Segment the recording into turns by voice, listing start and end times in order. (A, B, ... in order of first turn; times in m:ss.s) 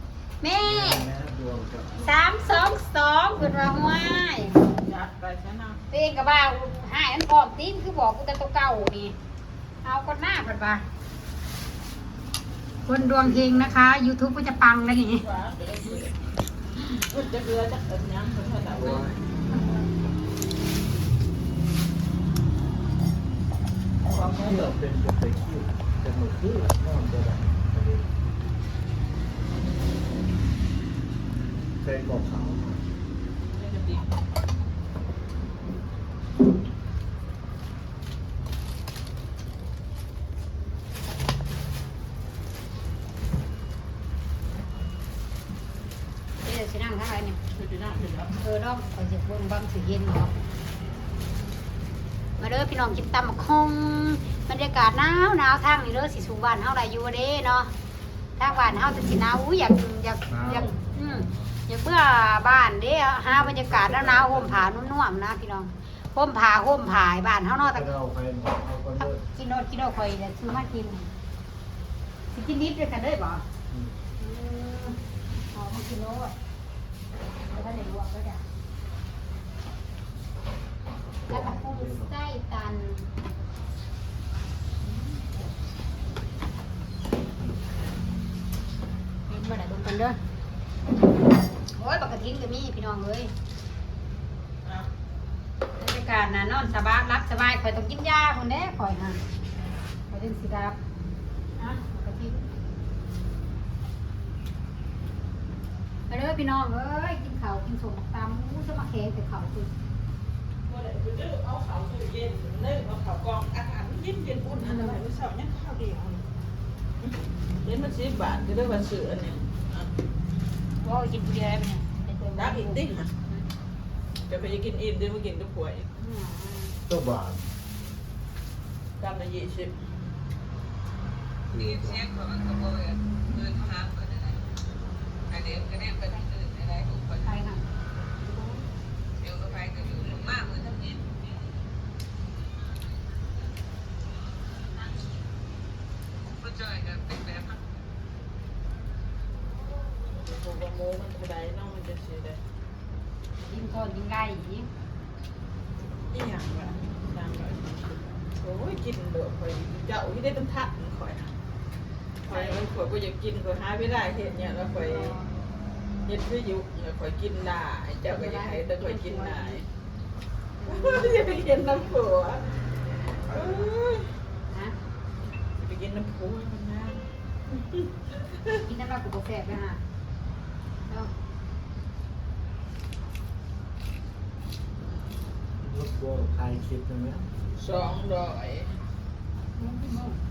0:00.4-0:01.1 A
0:00.6-0:02.1 B
0:02.0-0:04.6 A
0:04.7-0:05.8 C
0:05.9-0:09.2 A
0:09.8-0:10.8 A
0:12.8-0:15.2 A
0:12.9-0:13.5 B
0:15.1-0:16.2 C
0:16.7-0:19.1 C
0:18.8-0:19.8 B
0:24.0-0:24.7 C
0:24.0-0:27.8 B
0:31.8-0:32.8 B
0:33.5-0:34.1 C
0:46.4-0:47.4 A
0:47.5-0:48.4 C
0:48.4-0:50.4 A
0:52.4-0:57.7 A
0:58.4-1:07.9 A
1:00.3-1:01.2 B
1:03.3-1:04.7 B
1:07.6-1:09.2 B
1:09.0-1:11.1 A
1:12.3-1:13.4 A
1:13.7-1:14.0 B
1:14.2-1:15.0 A
1:15.5-1:16.3 A
1:17.5-1:18.4 A
1:21.2-1:22.1 B
1:21.3-1:23.1 A
1:29.3-1:30.2 A
1:31.8-1:33.3 A
1:35.8-1:39.2 A
1:40.1-1:40.8 A
1:41.6-1:42.4 A
1:46.1-1:49.7 A
1:50.6-1:56.2 C
1:54.6-1:55.0 A
1:57.0-1:59.9 C
2:00.8-2:03.4 A
2:02.4-2:03.1 C
2:04.3-2:05.9 C
2:06.0-2:06.8 A
2:06.8-2:07.5 B
2:09.0-2:09.7 C
2:11.5-2:12.2 B
2:12.0-2:14.0 D
2:15.3-2:17.0 C
2:17.2-2:17.6 A
2:18.2-2:18.6 C
2:19.4-2:20.7 C
2:19.5-2:20.9 D
2:26.4-2:27.6 D
2:30.2-2:32.4 C
2:33.4-2:34.7 A
2:36.1-2:41.3 C
2:42.2-2:45.2 C
2:42.3-2:42.6 A
2:44.7-2:45.3 A
2:46.0-2:49.6 C
2:48.1-2:49.6 A
2:50.6-2:51.2 A
2:50.6-2:52.4 C
2:53.3-2:53.6 B
2:53.3-2:54.1 C
2:54.5-2:54.7 A
2:55.6-2:58.6 C
2:58.6-2:59.8 A
3:05.6-3:07.2 B
3:07.6-3:08.8 C
3:09.6-3:10.2 A